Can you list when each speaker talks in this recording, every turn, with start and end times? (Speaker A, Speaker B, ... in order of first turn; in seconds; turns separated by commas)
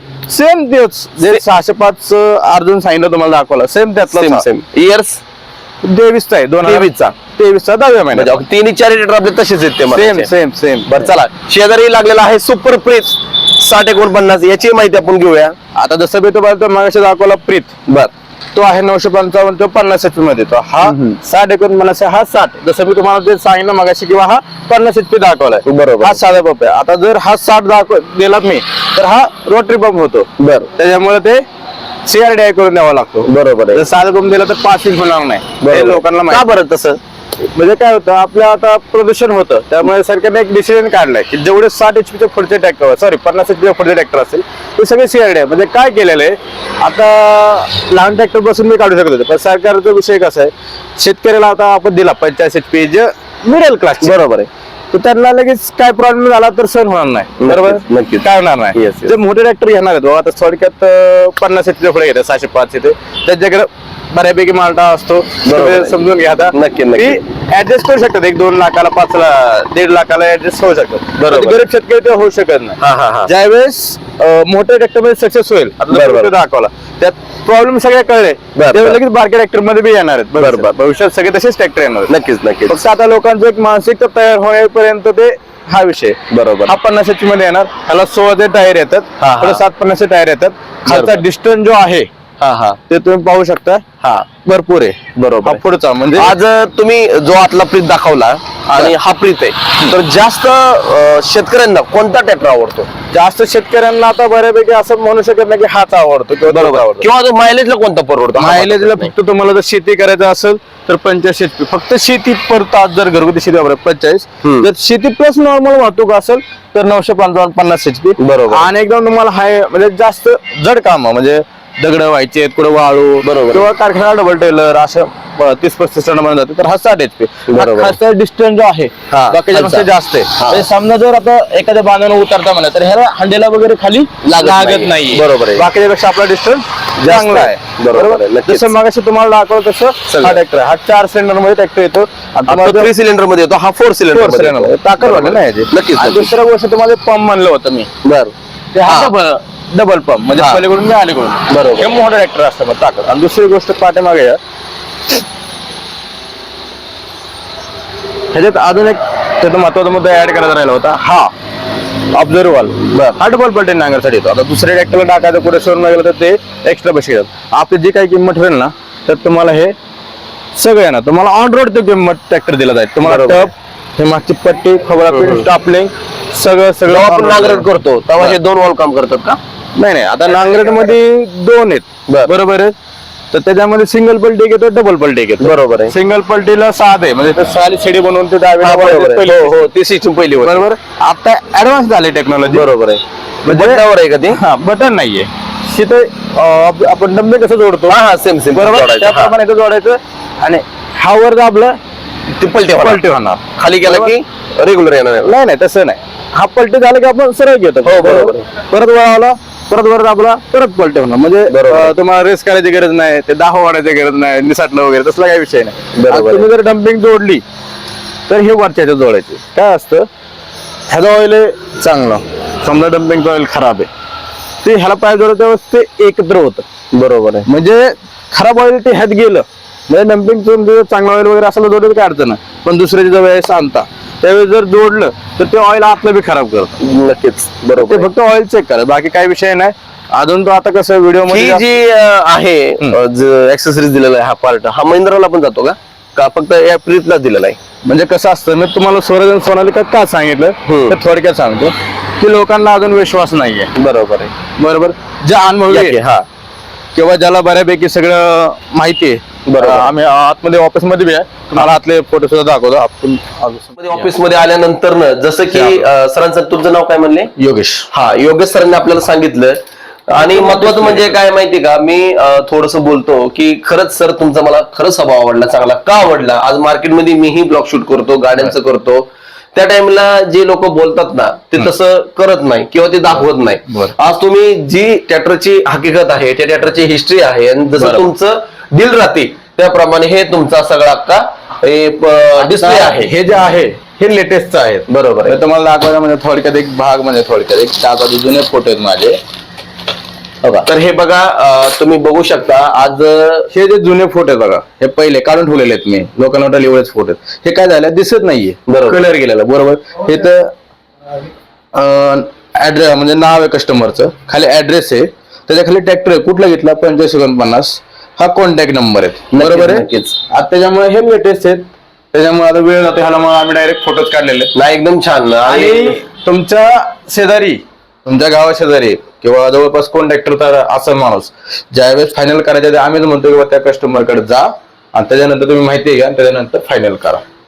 Speaker A: 0.3-4.4, Speaker B: 4.1-5.2, Speaker A: 5.8-8.3, Speaker B: 6.6-7.1, Speaker B: 8.1-10.3, Speaker A: 9.9-11.1, Speaker B: 10.9-15.5, Speaker A: 15.7-17.8, Speaker A: 18.5-31.4, Speaker B: 25.6-26.2, Speaker B: 30.4-30.7, Speaker A: 32.0-36.5, Speaker B: 33.2-33.8, Speaker B: 35.6-37.0, Speaker A: 37.5-54.2, Speaker B: 54.0-54.5, Speaker A: 54.9-82.1, Speaker B: 57.4-59.1, Speaker B: 65.4-66.0, Speaker B: 66.5-67.2, Speaker B: 71.2-71.6, Speaker B: 72.8-73.3, Speaker B: 75.9-76.3, Speaker B: 78.5-79.0, Speaker B: 80.4-80.7, Speaker B: 82.1-82.8, Speaker A: 82.7-92.1, Speaker B: 86.3-86.7, Speaker B: 89.2-89.6, Speaker B: 90.9-91.2, Speaker B: 92.4-92.8, Speaker A: 92.9-96.4, Speaker B: 95.1-95.6, Speaker B: 96.2-102.9, Speaker A: 103.1-107.1, Speaker B: 106.5-109.1, Speaker A: 108.3-142.9, Speaker B: 118.2-118.7, Speaker B: 123.2-123.7, Speaker B: 127.5-128.0, Speaker B: 129.1-129.8, Speaker B: 130.4-130.6, Speaker B: 134.2-135.7, Speaker B: 137.0-138.7, Speaker B: 140.1-140.4, Speaker B: 142.5-146.3, Speaker A: 144.1-147.9, Speaker B: 148.0-148.3, Speaker A: 148.7-154.4, Speaker B: 148.8-149.2, Speaker B: 150.3-150.6, Speaker B: 151.5-151.9, Speaker A: 158.3-161.3, Speaker A: 162.1-169.7, Speaker B: 162.9-163.2, Speaker A: 170.5-178.4, Speaker B: 173.0-173.5, Speaker B: 175.1-175.4, Speaker B: 176.8-179.4, Speaker A: 179.8-182.7, Speaker B: 182.1-182.3, Speaker A: 183.3-189.7, Speaker B: 185.4-185.9, Speaker B: 188.6-190.7, Speaker A: 190.4-192.7, Speaker B: 192.5-194.4, Speaker A: 193.4-198.0, Speaker B: 197.9-199.3, Speaker A: 198.5-201.8, Speaker B: 202.3-203.0, Speaker A: 202.7-204.2, Speaker B: 203.6-205.3, Speaker A: 205.2-217.4, Speaker B: 207.8-208.5, Speaker B: 211.5-211.9, Speaker B: 215.9-216.5, Speaker A: 218.3-220.1, Speaker A: 220.9-223.9, Speaker A: 224.6-226.7, Speaker B: 226.9-227.5, Speaker A: 227.4-236.8, Speaker B: 236.8-238.1, Speaker A: 237.7-241.6, Speaker B: 241.2-247.6, Speaker A: 247.8-253.7, Speaker B: 250.7-251.0, Speaker B: 253.7-254.3, Speaker A: 254.6-256.0, Speaker B: 255.7-256.2, Speaker A: 256.9-264.1, Speaker B: 259.4-259.9, Speaker B: 263.8-267.3, Speaker A: 265.5-265.9, Speaker A: 267.4-267.9, Speaker B: 267.9-293.1, Speaker A: 270.1-271.1, Speaker A: 283.7-283.9, Speaker A: 287.8-288.1, Speaker A: 292.4-299.2, Speaker B: 294.9-295.4, Speaker B: 300.5-303.5, Speaker A: 303.5-310.5, Speaker B: 308.7-309.0, Speaker A: 311.7-324.5, Speaker B: 319.3-320.1, Speaker B: 324.5-326.0, Speaker A: 325.4-337.2